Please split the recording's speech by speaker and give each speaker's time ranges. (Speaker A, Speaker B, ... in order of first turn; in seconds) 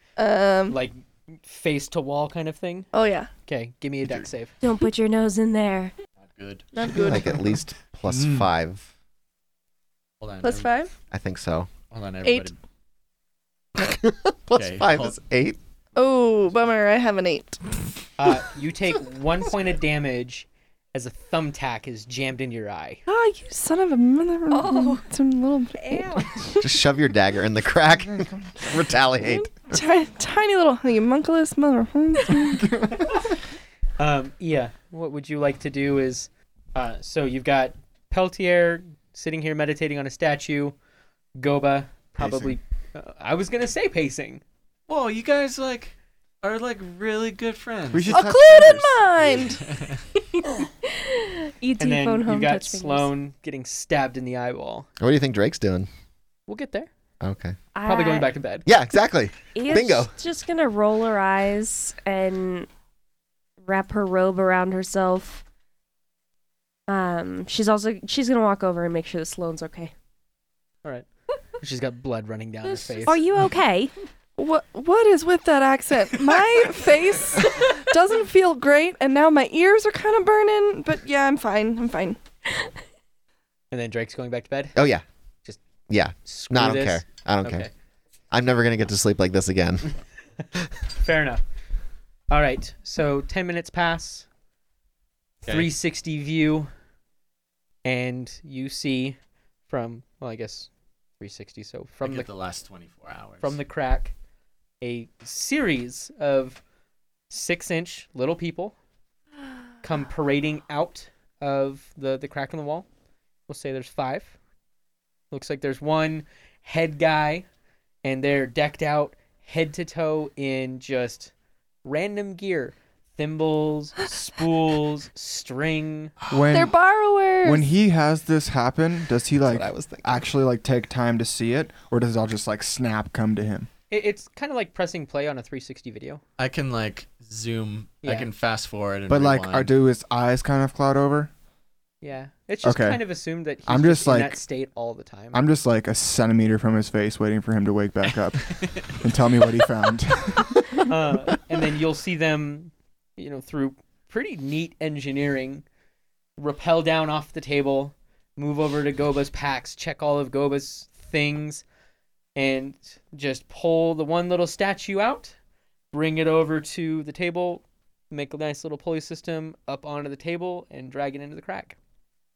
Speaker A: 0.2-0.8, 2.9-3.3, 6.7-7.4, 10.4-10.9, 12.2-12.5, 16.0-17.6, 23.1-26.6, 29.7-32.8, 48.1-49.6, 74.4-82.2, 126.5-127.7
Speaker B: 0.7-2.9, 3.5-4.6, 18.2-23.0, 34.0-40.8, 41.4-44.4, 51.8-54.9, 56.5-56.9, 57.9-58.7, 71.6-73.2, 83.7-84.8, 86.2-87.7, 91.0-91.4, 92.3-94.3, 95.5-96.7, 97.8-102.3, 103.4-104.1, 104.8-106.6, 107.3-108.8, 109.8-112.9, 113.5-114.4, 115.3-117.5, 118.0-121.3, 121.8-126.2, 133.9-136.2, 138.0-138.3, 142.0-145.4, 150.8-155.7, 156.4-161.7, 162.3-165.4, 165.9-171.8
Speaker C: 4.6-5.9, 24.5-25.0, 25.7-26.3, 50.3-53.1, 57.7-58.3, 59.5-62.7, 63.6-65.4, 66.9-69.9, 72.7-73.9
Speaker D: 6.4-6.7, 10.2-10.7, 11.9-12.6, 14.6-15.2, 44.9-48.2, 49.7-50.0, 102.0-103.6, 136.4-139.7
Speaker E: 6.8-8.9, 11.1-11.7, 13.8-15.6, 26.6-29.8, 55.0-55.9, 57.2-57.6, 58.7-60.1, 84.8-85.0, 85.9-87.7, 88.3-89.9, 129.4-130.2
Speaker F: 8.1-8.5, 28.1-28.5, 32.6-33.1, 42.2-42.5, 47.9-49.0, 126.3-126.7, 127.4-133.7, 139.1-141.3, 142.6-143.0, 143.7-144.4, 145.3-150.8